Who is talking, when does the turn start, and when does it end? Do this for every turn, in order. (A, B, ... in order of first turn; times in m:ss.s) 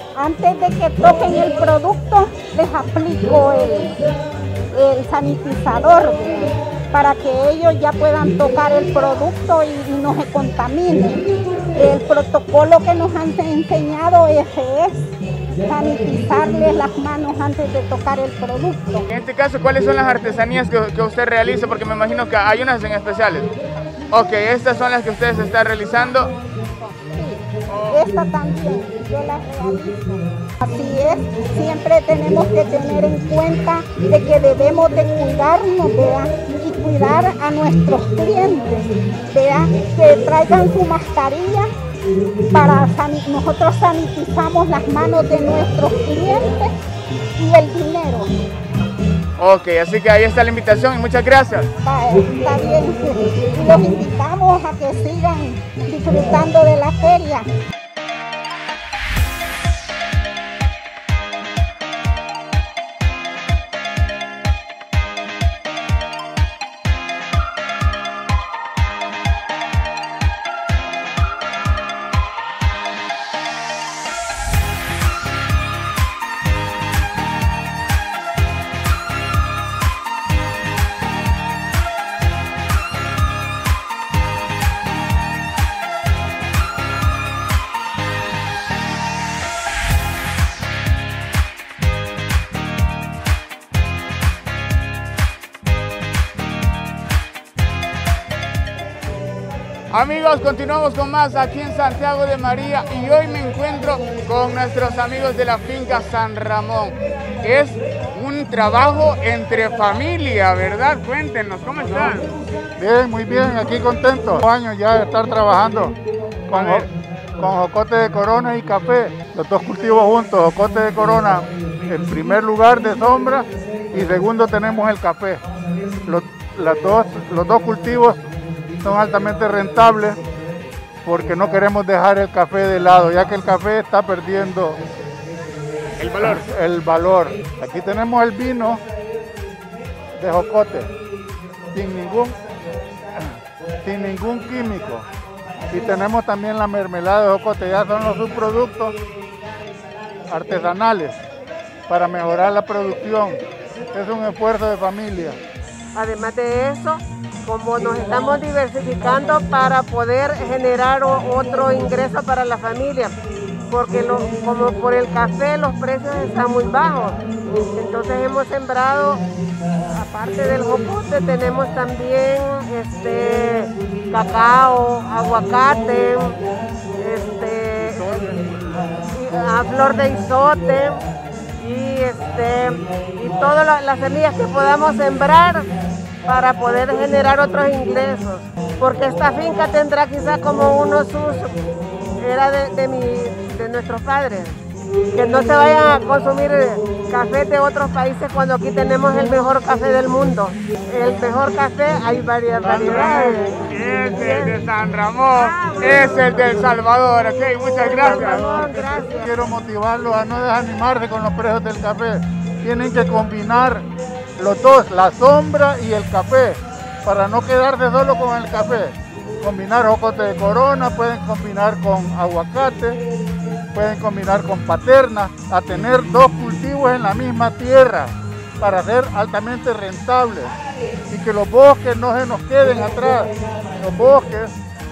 0:00.2-0:04.0 A
0:04.7-0:19.1 A
0:19.1-0:23.5 B
0:24.1-0:26.3 B
0:26.9-0:41.7 A
0:27.7-0:28.1 B
0:42.5-0:46.7 A
0:47.4-0:48.3 A
0:49.4-0:51.7 B
0:51.8-0:57.5 A
1:39.9-1:52.3 B
1:52.8-1:56.0 C
1:56.5-2:05.4 C
1:56.5-1:56.9 B
2:06.1-2:08.3 C
2:08.8-2:10.2 C
2:11.0-2:14.8 C
2:16.0-2:16.5 B
2:16.2-2:18.8 C
2:20.2-2:21.0 C
2:21.7-2:22.4 C
2:23.2-2:25.1 C
2:25.7-2:29.0 C
2:30.3-2:31.2 C
2:31.9-2:33.4 C
2:33.9-2:35.4 C
2:35.9-2:43.2 D
2:43.7-2:47.2 D
2:47.7-2:49.3 D
2:49.9-2:56.4 D
2:57.0-3:01.0 D
2:58.0-2:58.5 C
3:01.6-3:05.7 D
3:06.3-3:11.6 D
3:12.2-3:14.6 D
3:15.1-3:24.6 D
3:22.6-3:28.9 B
3:25.3-3:26.8 D
3:27.6-3:29.3 D
3:29.2-3:33.9 C
3:34.4-3:43.0 C
3:43.7-3:50.6 C
3:51.1-3:54.6 C